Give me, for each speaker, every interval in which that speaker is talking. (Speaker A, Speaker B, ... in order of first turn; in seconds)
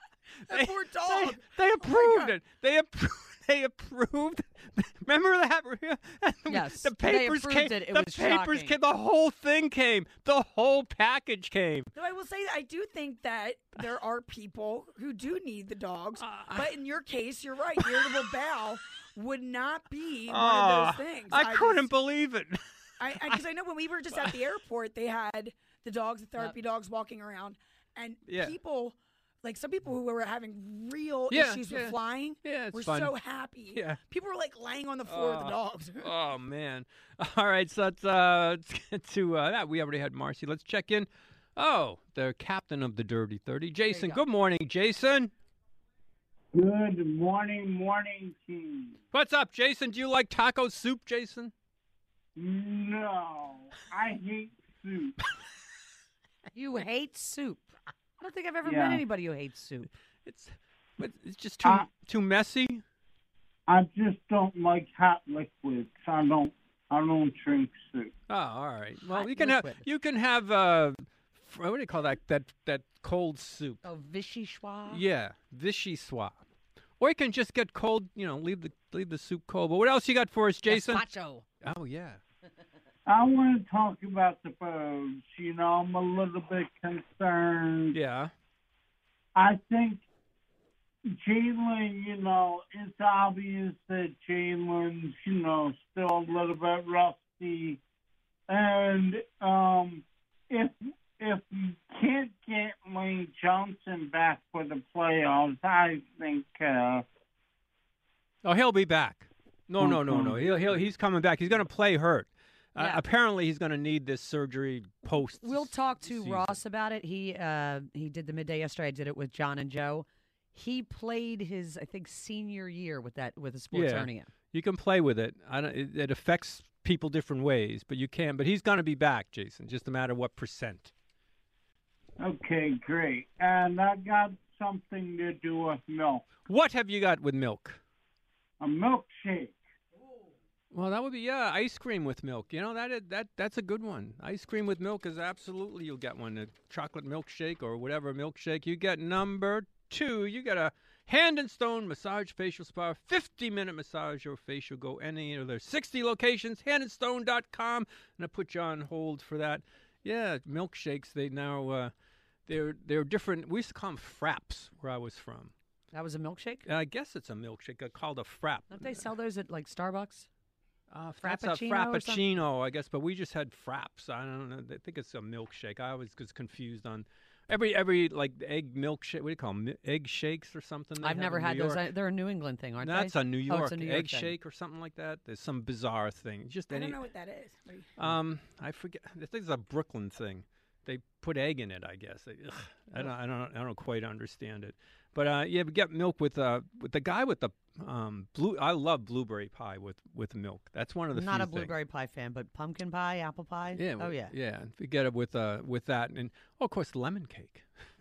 Speaker A: 0.5-2.4, 11.9-21.9, 23.0-36.1, 186.7-188.1
Speaker B: 0.5-11.9, 16.2-16.7, 17.8-18.2, 20.3-23.4, 28.2-28.6, 31.3-33.1, 33.7-34.0, 35.0-45.3, 49.1-51.5, 60.2-62.8, 68.3-73.8, 74.9-76.4, 77.0-81.0, 81.6-82.2, 87.9-88.3, 108.4-116.6, 123.7-130.9, 136.5-137.8, 140.7-161.9, 162.5-165.5, 166.7-169.0, 170.9-181.9, 182.8-187.0, 188.0-201.7, 203.7-207.7
Speaker C: 6.5-8.8, 43.9-44.2, 56.5-59.9, 69.0-69.8, 73.8-75.0, 80.7-81.5, 112.8-113.0, 115.1-124.3, 165.9-166.6, 168.7-170.3, 171.2-172.2, 181.0-184.3, 201.1-204.3
Speaker D: 46.5-49.0, 52.4-55.1, 58.6-59.0, 63.7-68.1, 83.1-88.0, 89.3-90.0, 91.1-97.8, 98.5-107.0, 109.8-110.5, 132.2-136.3, 138.6-139.6